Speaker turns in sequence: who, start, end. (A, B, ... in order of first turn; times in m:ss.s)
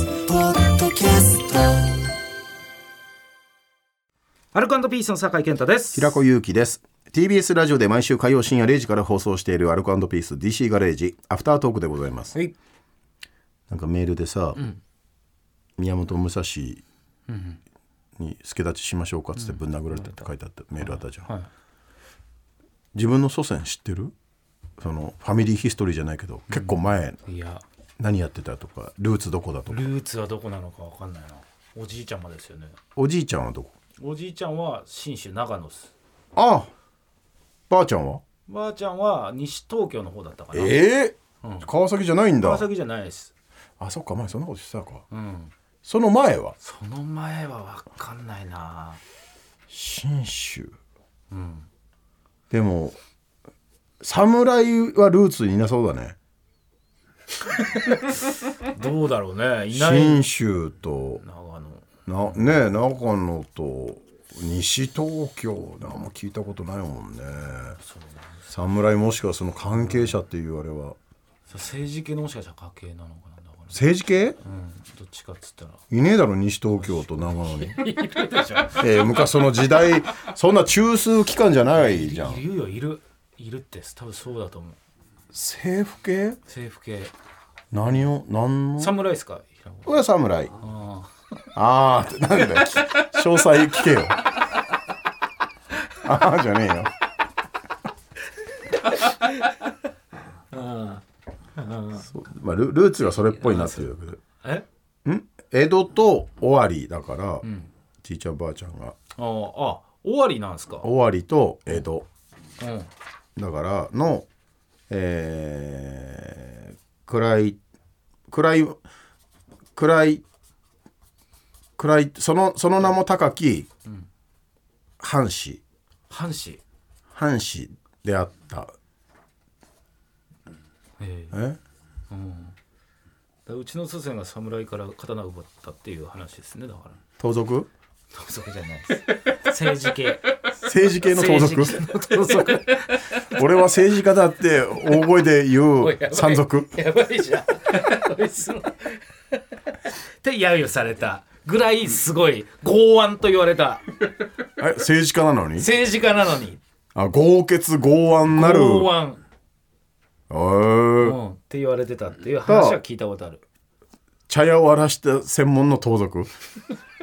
0:00.6-0:01.5 A
0:04.5-0:06.2 A
0:05.9-0:12.3 B
0:13.7-0:14.6 B
0:15.8-0:16.8 B
0:17.3-0:17.6 A
0:18.2-0:21.3 B
0:19.4-0:20.3 A
0:20.8-0:21.5 A
0:22.9-0:24.1 B
0:24.8-0:27.2 B
0:26.5-0:27.6 A
0:28.0-0:29.8 B
0:29.7-0:32.8 A
0:33.0-0:33.7 B
0:34.0-0:35.9 A
0:36.4-0:36.7 B
0:37.7-0:38.2 B
0:38.5-0:40.8 A
0:40.5-0:42.7 B
0:41.4-0:41.7 A
0:42.4-0:43.3 A
0:43.8-0:45.0 B
0:45.1-0:45.5 A
0:45.8-0:46.6 B
0:46.6-0:49.0 A
0:49.7-0:50.7 B
0:51.3-0:51.7 A
0:52.5-0:53.0 B
0:54.0-0:56.2 B
0:57.5-1:00.2 A
0:59.7-1:01.2 B
1:01.2-1:02.5 A
1:02.1-1:07.8 B
1:07.8-1:08.5 A
1:08.5-1:11.0 B
1:09.7-1:10.2 A
1:11.5-1:13.8 A
1:13.7-1:14.4 B
1:14.4-1:15.8 A
1:15.9-1:17.8 B
1:16.7-1:19.0 A
1:18.7-1:22.4 B
1:21.7-1:24.8 A
1:25.3-1:26.4 B
1:26.4-1:27.1 A
1:27.7-1:29.0 B
1:28.8-1:30.0 A
1:29.8-1:30.5 B
1:30.6-1:31.1 A
1:31.6-1:34.3 B
1:36.0-1:36.9 B
1:38.8-1:39.5 A
1:40.5-1:41.0 A
1:41.6-1:42.1 A
1:41.9-1:44.2 B
1:43.4-1:44.7 A
1:45.0-1:47.4 B
1:47.4-1:47.7 A
1:48.0-1:49.0 B
1:49.2-1:50.9 A
1:50.8-1:52.0 B
1:52.6-1:52.9 A
1:53.4-1:54.2 B
1:54.9-1:57.6 B
1:58.3-1:58.8 B
1:59.8-2:00.2 B
2:01.8-2:03.7 B
2:05.0-2:05.6 B
2:06.1-2:06.6 A
2:07.1-2:08.7 B
2:11.0-2:11.4 A
2:11.3-2:11.6 B
2:12.1-2:12.5 A
2:13.4-2:17.0 A
2:17.2-2:17.7 B
2:18.1-2:20.4 A
2:20.6-2:21.8 B
2:21.0-2:23.4 A
2:23.2-2:26.7 B
2:25.8-2:33.9 A
2:34.6-2:35.7 B
2:35.6-2:36.6 A
2:36.9-2:38.9 B
2:38.3-2:39.2 A
2:40.3-2:41.2 B
2:41.0-2:43.4 A
2:42.4-2:42.8 B
2:44.3-2:46.3 B